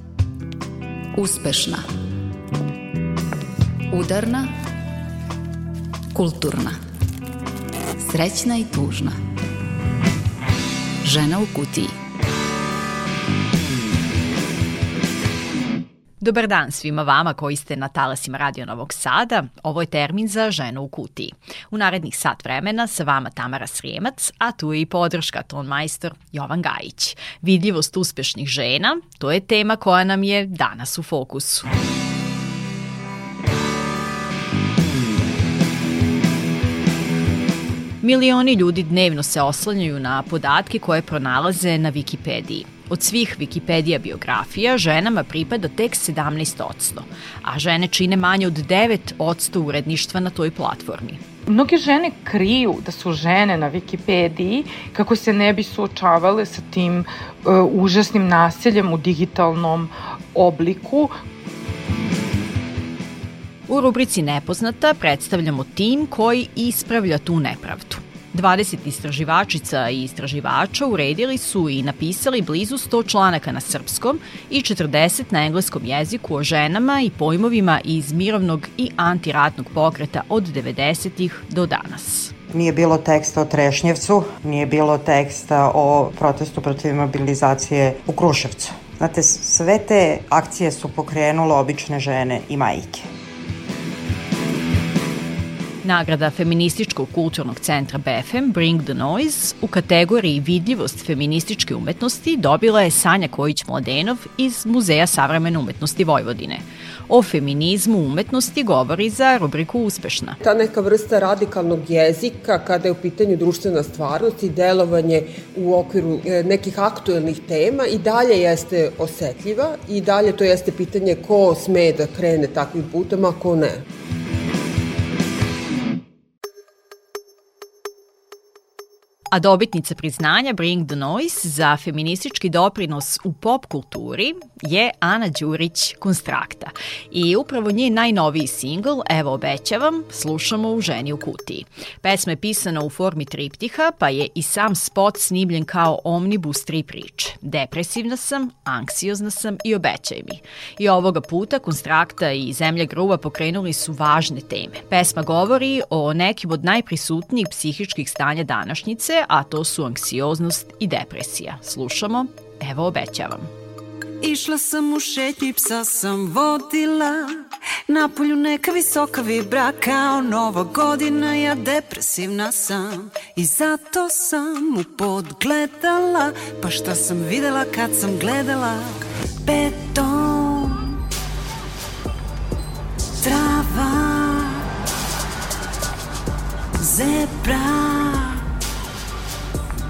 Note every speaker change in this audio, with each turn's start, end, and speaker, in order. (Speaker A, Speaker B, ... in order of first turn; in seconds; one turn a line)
Speaker A: 1.2-1.9
Speaker A: 3.9-4.5
Speaker A: 6.1-6.8
Speaker A: 8.0-9.2
Speaker A: 11.0-11.9
Speaker B: 16.2-31.7
Speaker B: 38.0-51.2
Speaker C: 51.5-61.1
Speaker B: 63.7-82.3
Speaker D: 82.5-93.1
Speaker B: 95.8-110.4
Speaker E: 110.4-123.8
Speaker B: 129.3-163.5
Speaker F: 164.2-181.0
Speaker F: 183.2-184.6
Speaker F: 186.8-188.4